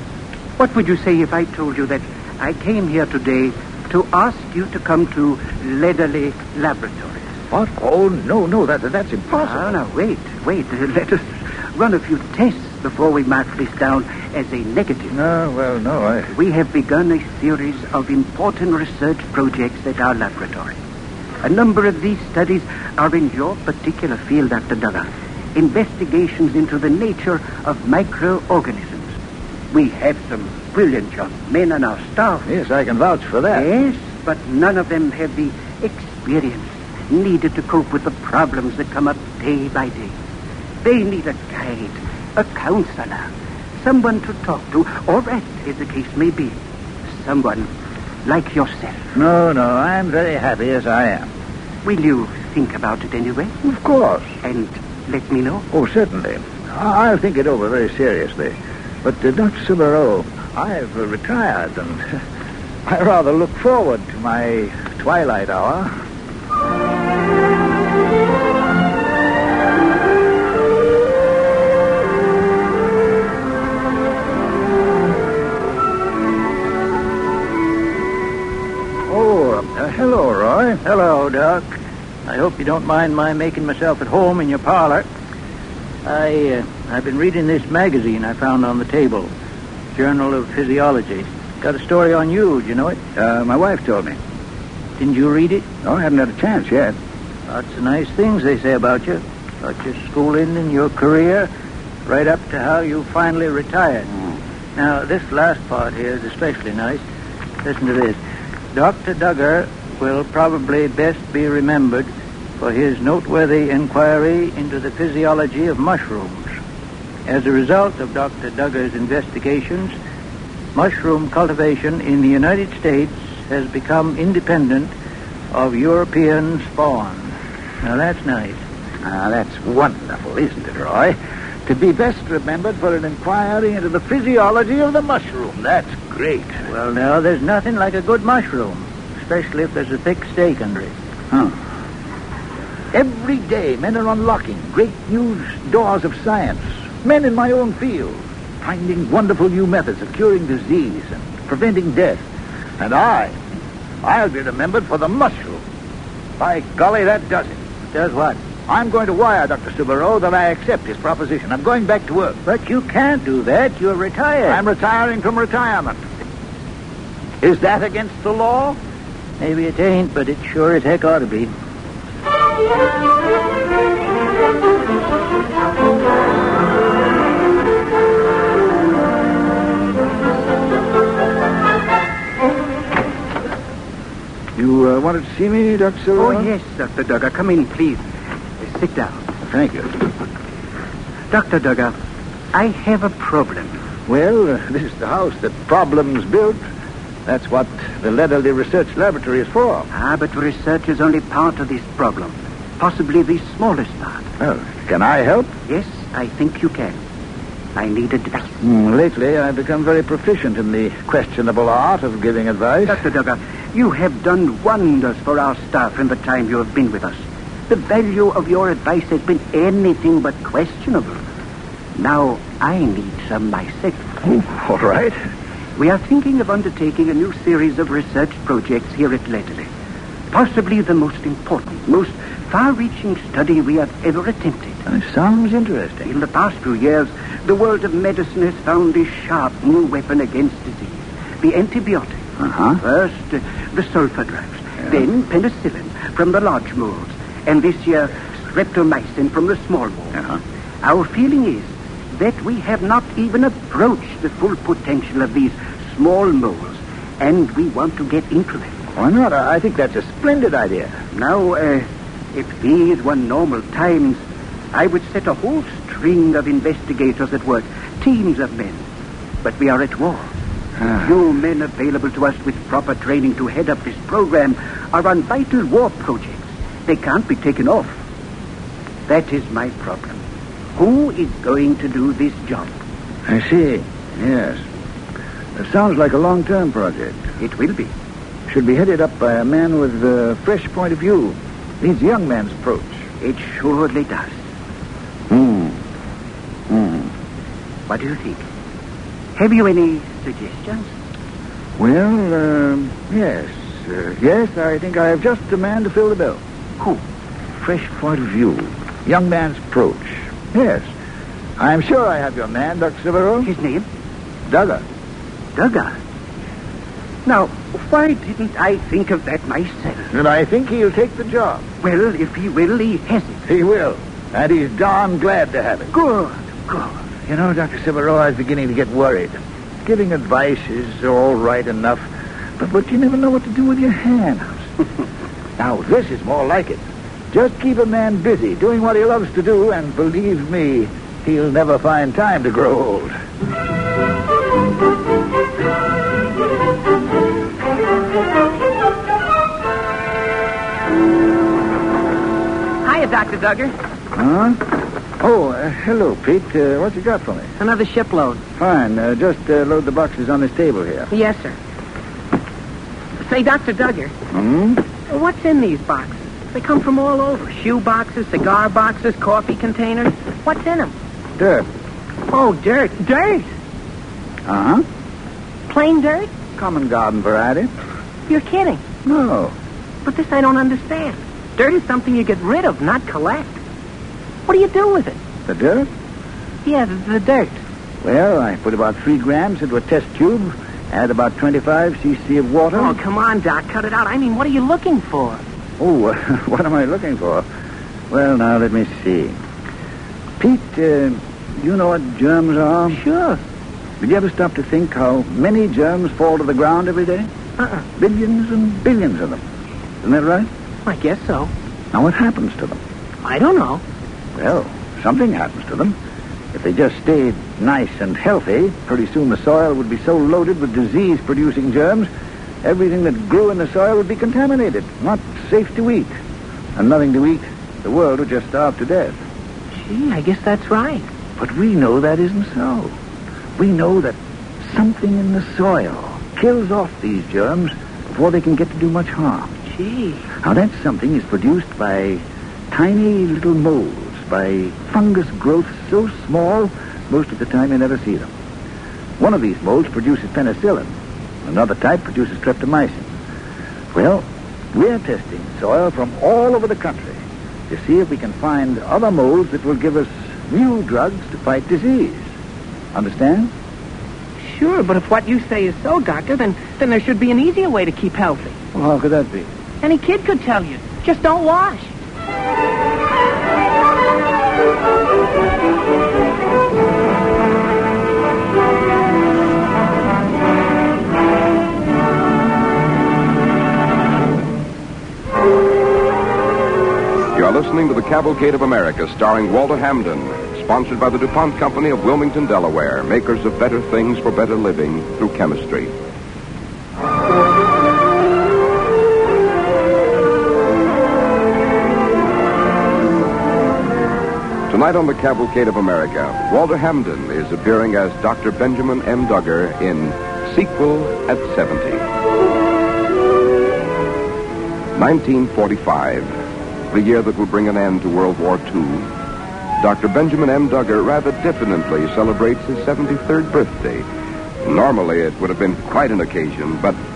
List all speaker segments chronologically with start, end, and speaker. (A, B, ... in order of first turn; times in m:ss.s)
0:00.6-0:07.3 A
0:07.5-0:09.7 B
0:09.3-0:15.2 A
0:15.1-0:16.3 B
0:16.3-0:20.8 A
0:21.4-0:29.1 A
0:29.7-0:32.5 A
0:32.5-0:33.7 B
0:33.5-0:40.2 A
0:40.8-0:46.6 A
0:47.1-0:47.7 A
0:48.2-0:49.0 A
0:49.2-0:51.3 B
0:51.8-0:53.6 A
0:53.6-0:54.3 B
0:54.4-0:55.6 A
0:55.7-1:02.1 B
1:02.9-1:05.9 B
1:19.1-1:20.8 B
1:20.8-1:21.7 C
1:22.3-1:25.1 C
1:26.0-1:29.3 C
1:30.0-1:33.0 C
1:33.2-1:34.2 B
1:35.0-1:35.7 C
1:35.8-1:37.0 B
1:37.5-1:41.5 C
1:42.1-1:44.1 C
1:44.8-1:47.0 C
1:47.6-1:48.2 C
1:48.7-1:56.5 C
1:57.3-2:00.0 C
2:00.8-2:04.9 C
2:05.5-2:08.6 C
2:09.0-2:16.6 B
2:16.7-2:20.9 C
2:21.3-2:21.6 B
2:22.9-2:32.2 B
2:32.8-2:33.4 B
2:34.0-2:35.6 B
2:36.4-2:37.6 B
2:37.9-2:38.4 C
2:38.7-2:42.4 B
2:42.5-2:44.6 C
2:44.5-2:46.0 B
2:47.4-2:48.8 B
2:49.4-2:51.5 C
3:04.6-3:06.5 B
3:06.2-3:08.0 A
3:08.6-3:09.2 A
3:09.5-3:09.9 B
3:11.3-3:12.0 A
3:12.5-3:13.8 A
3:14.1-3:16.6 B
3:17.3-3:19.9 B
3:19.9-3:24.2 A
3:24.4-3:25.5 B
3:25.7-3:27.0 A
3:27.8-3:28.6 A
3:28.6-3:33.0 B
3:32.9-3:41.2 A
3:42.0-3:44.0 A
3:44.2-3:45.2 B
3:45.8-3:49.7 A
3:50.3-3:54.8 A
3:54.9-3:56.1 B
3:56.0-4:02.2 A
4:02.4-4:02.8 B
4:02.8-4:10.2 A
4:10.8-4:18.7 A
4:19.0-4:21.0 B
4:21.1-4:24.2 A
4:24.7-4:28.8 A
4:29.4-4:30.3 A
4:30.9-4:37.9 A
4:39.1-4:40.2 A
4:40.8-4:42.7 A
4:43.3-4:44.6 B
4:45.6-4:47.2 B
4:47.4-4:47.9 A
4:48.5-4:53.0 B
4:53.2-4:54.3 A
4:55.3-4:55.8 B
4:56.7-4:57.1 B
4:57.9-4:58.4 A
4:59.4-5:00.9 A
5:01.8-5:06.4 B
5:07.6-5:10.9 B
5:11.6-5:13.5 B
5:13.4-5:13.8 A
5:14.5-5:14.8 B
5:15.6-5:15.9 A
5:17.3-5:20.1 A
5:20.1-5:21.6 B
5:21.8-5:23.4 A
5:23.5-5:25.9 B
5:25.9-5:26.9 A
5:27.3-5:32.1 B
5:32.6-5:34.7 B
5:35.6-5:43.2 B
5:52.8-5:53.7 D
5:54.2-5:54.6 B
5:55.2-5:57.5 B
5:57.6-5:58.4 D
5:58.6-6:01.1 B
6:01.1-6:01.6 D
6:03.2-6:04.1 D
6:04.3-6:04.8 B
6:05.1-6:10.9 D
6:11.4-6:11.7 B
6:12.3-6:13.5 D
6:14.4-6:14.8 B
6:15.7-6:16.3 D
6:16.6-6:17.7 B
6:18.3-6:18.8 D
6:19.0-6:19.5 B
6:20.0-6:23.6 D
6:24.5-6:25.2 D
6:25.5-6:25.9 B
6:26.6-6:27.6 D
6:28.0-6:33.0 B
6:32.7-6:35.4 D
6:35.8-6:37.5 B
6:38.1-6:39.4 B
6:40.4-6:43.0 B
6:42.9-6:43.4 D
6:44.0-6:47.3 B
6:47.6-6:47.8 D
6:48.0-6:49.4 B
6:50.0-6:50.5 B
6:50.8-6:51.5 D
6:51.9-6:52.8 B
6:53.2-6:53.8 D
6:54.4-6:56.0 B
6:56.5-7:02.1 B
7:02.6-7:06.1 B
7:06.8-7:09.2 B
7:09.8-7:11.1 D
7:11.4-7:13.0 B
7:13.6-7:19.6 B
7:19.7-7:20.2 D
7:20.4-7:28.3 B
7:29.2-7:33.1 B
7:33.9-7:42.3 B
7:42.9-7:43.5 B
7:44.4-7:48.6 D
7:48.7-7:49.5 B
7:49.8-7:51.9 D
8:07.3-8:15.9 E
8:24.7-8:32.0 E
8:35.0-8:36.4 E
8:36.9-8:39.1 E
8:39.8-8:44.1 E
8:44.6-8:47.0 E